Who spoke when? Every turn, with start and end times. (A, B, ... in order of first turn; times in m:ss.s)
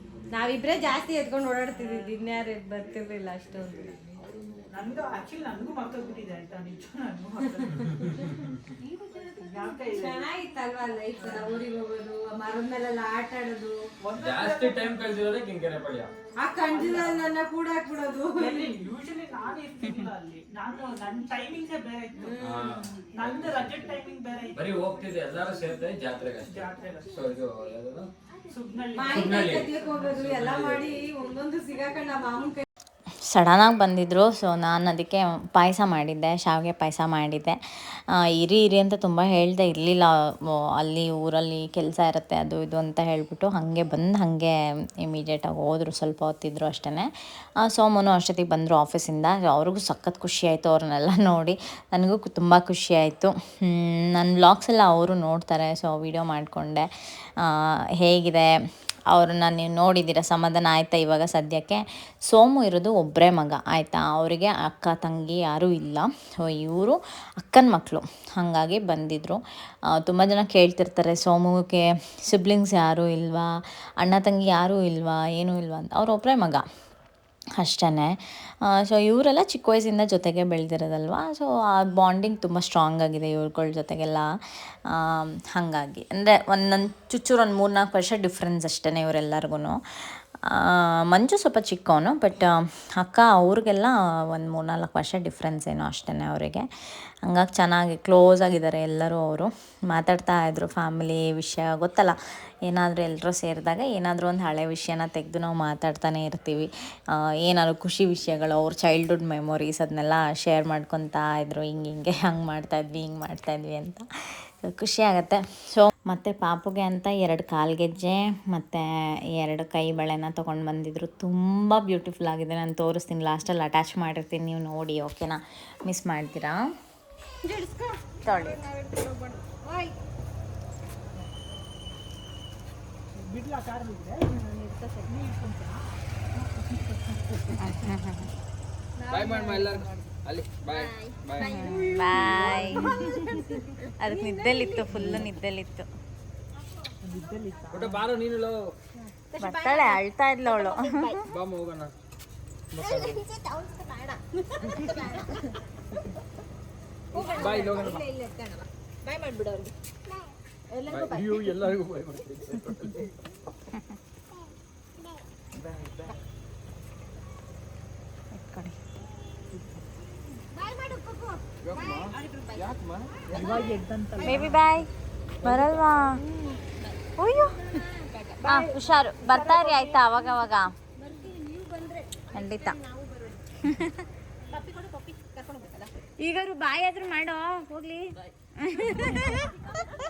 0:00.3-0:04.0 A
0:04.7-0:08.0 B
0:07.5-0:07.9 A
0:09.2-0:10.2 B
0:09.8-0:13.8 A
0:14.0-0:15.1 B
0:14.2-0:16.1 C
0:16.4-0:18.7 A
0:16.7-0:17.2 B
0:18.3-0:25.0 B
0:22.2-0:22.8 A
0:22.4-0:23.9 C
0:24.5-0:28.1 C
0:26.4-0:27.2 B
0:28.5-0:30.1 B
0:28.9-0:32.6 A
0:29.1-0:31.0 C
0:33.3-0:47.1 D
0:47.6-0:56.9 D
0:57.4-0:58.5 D
0:59.1-1:09.4 D
1:09.9-1:16.6 D
1:17.6-1:24.3 D
1:24.9-1:36.7 D
1:37.2-1:42.1 D
1:42.6-1:54.0 D
1:54.6-2:06.6 D
2:07.4-2:10.0 A
2:08.2-2:08.6 D
2:13.2-2:14.4 B
2:14.4-2:15.1 A
2:15.1-2:15.8 B
2:16.4-2:17.6 B
2:17.5-2:18.3 D
2:19.0-2:20.1 A
2:19.1-2:21.6 C
2:20.7-2:25.0 A
2:21.4-2:25.9 D
2:25.0-2:25.2 C
2:27.0-2:28.1 B
2:27.7-2:28.7 C
2:29.3-2:31.2 A
2:29.4-2:31.2 D
2:31.3-2:31.9 C
2:32.7-2:33.2 C
2:32.8-2:35.5 A
2:37.1-2:39.7 A
2:37.1-2:38.1 C
2:40.7-2:41.4 A
2:40.8-2:43.1 C
2:45.6-2:46.1 C
2:48.3-2:48.8 D
2:50.5-2:52.7 A
2:51.6-2:53.6 C
2:53.2-2:54.4 A
2:53.3-2:54.7 B
2:54.2-2:54.9 D
2:55.4-2:56.2 D
2:55.4-2:55.9 C
2:56.3-2:56.6 A
2:57.2-2:57.6 D
2:57.7-2:58.4 A
2:58.4-3:00.7 D
2:58.4-3:00.0 B
3:01.0-3:03.4 A
3:02.3-3:02.8 D
3:03.6-3:03.9 D
3:04.5-3:05.9 A
3:06.2-3:09.5 D
3:09.1-3:09.9 A